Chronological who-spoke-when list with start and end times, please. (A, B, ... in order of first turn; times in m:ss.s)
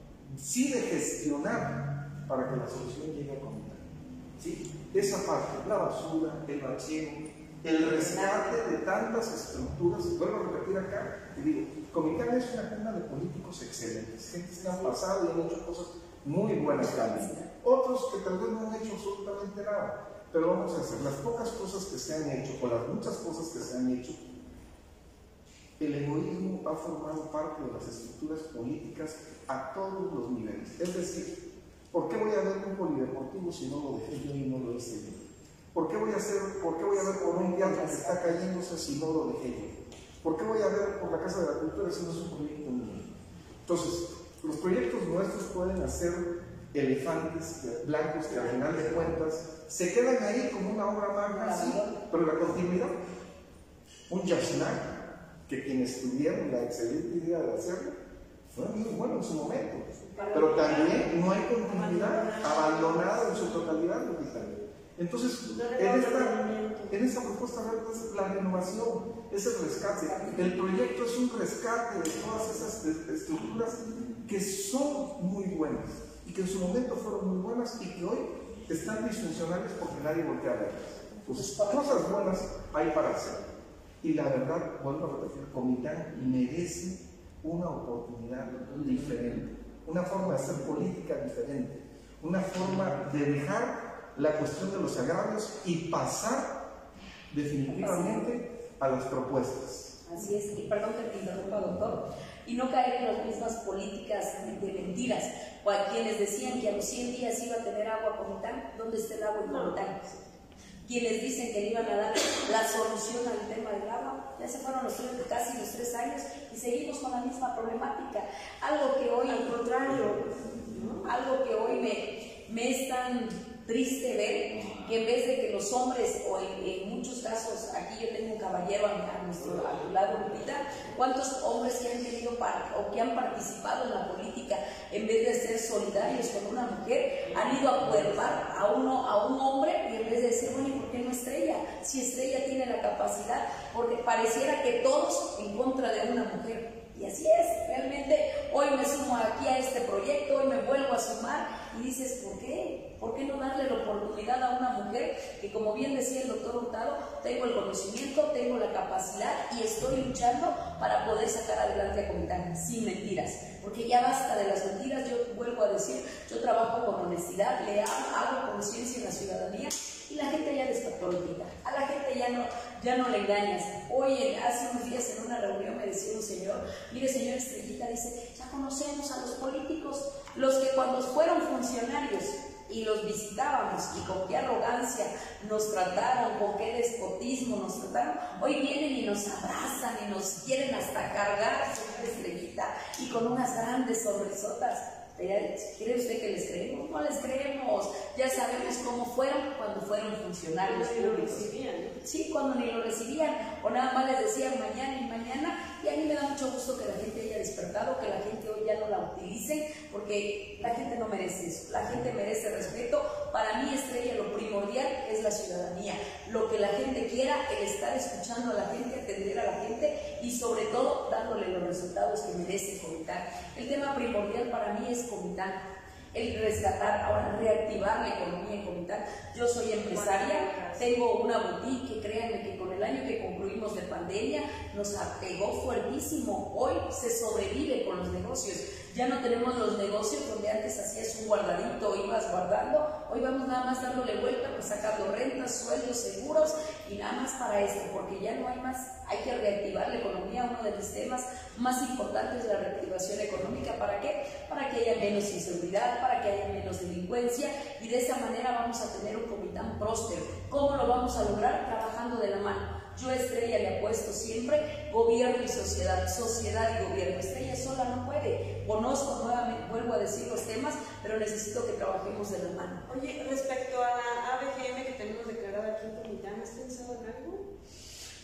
0:00.3-0:03.8 A
0:04.4-0:24.2 A
0:07.8-0:08.6 B
0:16.6-0:17.5 B
0:25.8-0:43.1 A
0:36.9-0:38.4 B
0:43.6-0:53.0 A
0:51.3-0:52.0 B
0:54.1-0:58.0 A
0:58.5-1:06.4 A
1:00.1-1:03.8 C
1:00.1-1:00.9 B
1:05.5-1:07.1 C
1:06.9-1:23.4 A
1:10.0-1:10.6 B
1:21.3-1:22.1 B
1:24.0-1:36.6 A
1:37.3-1:40.0 A
1:37.7-1:38.2 B
1:40.1-1:50.1 B
1:49.4-1:49.8 C
1:50.8-1:59.6 B
1:59.3-2:01.1 C
2:01.0-3:21.5 B
3:20.6-3:22.0 C
3:22.0-3:45.6 B
3:46.1-4:32.9 B
3:49.8-3:50.9 C
4:32.9-4:37.5 C